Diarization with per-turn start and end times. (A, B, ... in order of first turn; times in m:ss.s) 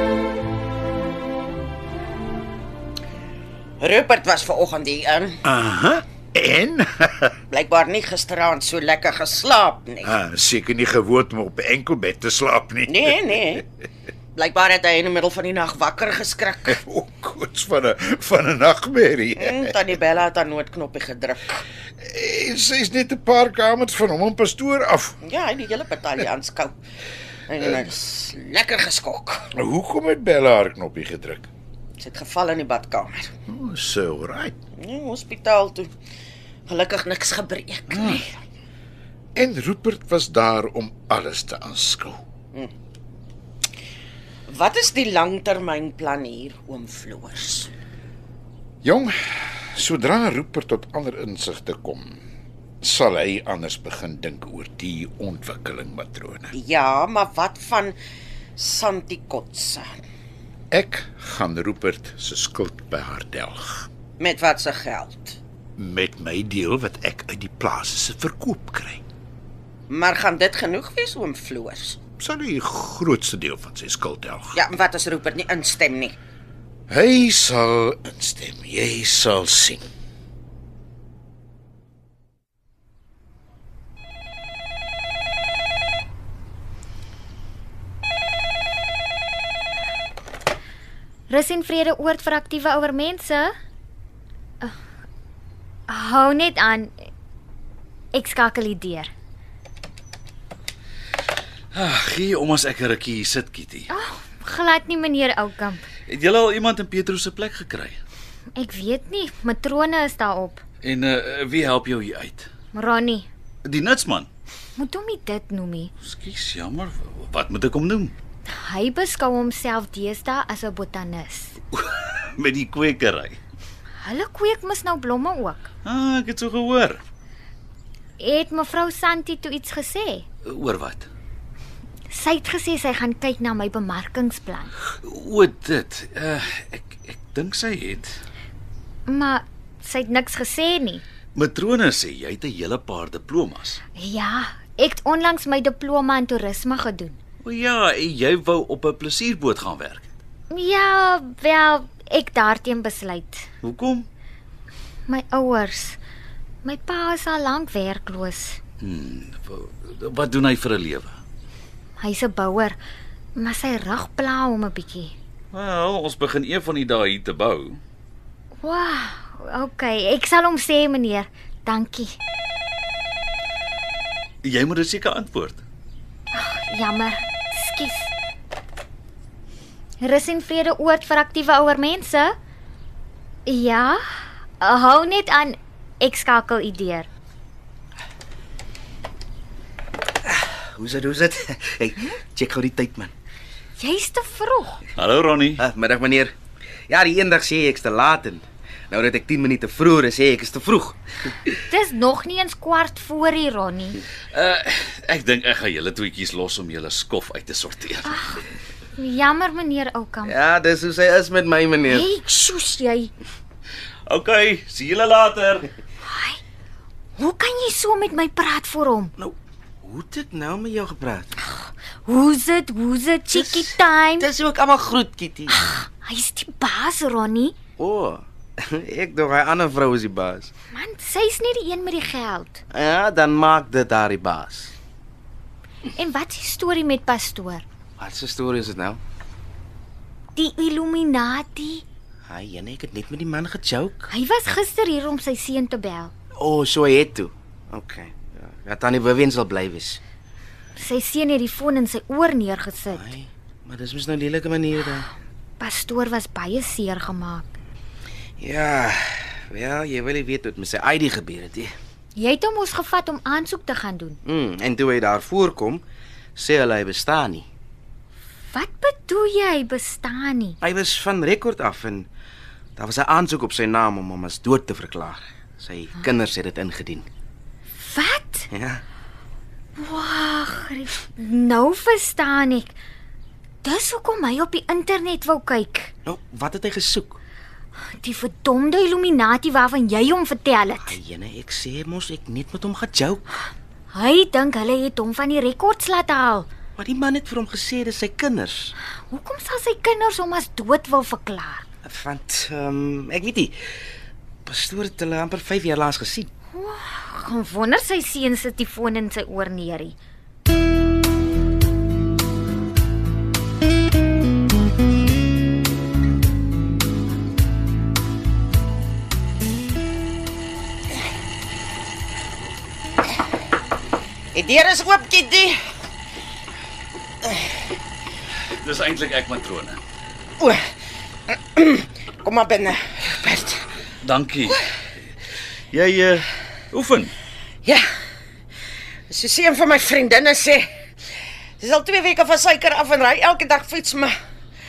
0:03.8-0:05.4 A
0:05.4-0:07.4 B
0:07.5-0:10.1 A
0:10.0-0:13.2 B
0:12.9-0:13.6 A
0:14.4-0:16.8 A
0:16.7-0:19.7 B
0:19.4-0:21.6 A
0:22.0-0:25.2 B
0:25.2-0:26.7 A
0:27.5-0:29.5 A
0:29.5-0:31.5 B
0:32.0-0:33.3 A
0:33.5-0:34.6 B
0:34.8-0:35.9 A
0:36.7-0:38.3 A
0:39.4-0:42.2 B
0:44.5-0:47.7 A
0:48.8-0:52.2 B
0:52.8-0:56.5 B
0:56.5-0:58.0 A
0:58.6-0:59.9 A
1:00.7-1:03.9 B
1:04.2-1:05.4 A
1:05.8-1:09.0 B
1:09.9-1:12.0 A
1:12.2-1:14.6 B
1:14.5-1:16.2 A
1:16.9-1:19.8 B
1:31.3-1:33.5 C
1:35.9-1:37.0 C
1:38.1-1:39.1 C
1:41.7-1:43.9 D
1:43.9-1:45.9 C
1:46.1-1:48.0 D
1:48.6-1:50.6 C
1:50.8-1:52.5 D
1:52.7-1:53.3 C
1:53.6-1:54.3 D
1:54.8-1:55.9 C
1:56.0-1:58.1 D
1:58.5-2:01.6 C
2:01.7-2:03.4 D
2:04.0-2:05.7 C
2:05.8-2:07.0 D
2:08.2-2:10.2 C
2:10.4-2:11.1 D
2:12.1-2:14.7 C
2:15.0-2:18.2 D
2:19.1-2:21.0 C
2:21.4-2:23.8 D
2:24.0-2:27.2 C
2:27.4-2:30.1 D
2:30.5-2:33.5 C
2:33.6-2:34.1 D
2:35.1-2:36.0 C
2:36.6-2:38.6 C
2:38.8-2:41.2 D
2:42.0-2:42.8 C
2:43.4-2:45.2 C
2:45.5-2:47.8 D
2:48.6-2:52.2 C
2:54.4-2:55.6 D
2:56.3-2:58.1 C
3:00.0-3:02.3 C
3:03.5-3:07.1 C
3:10.3-3:13.1 E
3:13.8-3:14.8 C
3:15.0-3:15.6 D
3:15.6-3:16.4 E
3:16.9-3:21.0 E
3:21.7-3:24.0 C
3:24.3-3:28.3 D
3:28.1-3:28.4 C
3:29.0-3:30.4 C
3:30.2-3:32.1 E
3:31.9-3:33.1 C
3:34.1-3:35.7 D
3:36.0-3:36.4 C
3:37.2-3:39.1 C
3:39.2-3:41.3 E
3:41.4-3:44.3 C
3:43.3-3:45.6 E
3:45.6-3:47.6 C
3:47.8-3:50.5 E
3:50.7-3:52.6 C
3:52.7-3:54.7 E
3:55.9-3:57.7 C
3:58.0-3:59.0 E
4:00.4-4:01.8 C
4:02.3-4:04.1 E
4:04.1-4:06.1 C
4:06.4-4:10.0 E
4:10.8-4:13.1 C
4:12.9-4:15.1 E
4:15.6-4:17.5 C
4:18.4-4:21.7 E
4:22.2-4:24.2 C
4:24.3-4:25.8 E
4:26.4-4:27.5 E
4:28.5-4:30.6 C
4:30.6-4:32.1 E
4:32.8-4:37.1 E
4:37.8-4:38.5 C
4:38.5-4:38.8 E
4:39.8-4:42.8 C
4:43.6-4:45.9 C
4:46.1-4:47.2 E
4:47.8-4:51.0 C
4:50.8-4:53.2 E
4:53.9-4:56.5 C
4:56.8-4:58.7 E
4:59.1-5:01.7 C
5:01.8-5:03.6 E
5:04.5-5:06.3 E
5:06.5-5:10.0 C
5:24.3-5:25.6 A
5:27.2-5:27.6 A
5:28.6-5:29.8 D
5:31.3-5:33.7 A
5:34.0-5:34.6 D
5:35.7-5:37.1 D
5:39.1-5:40.7 A
5:41.6-5:44.1 A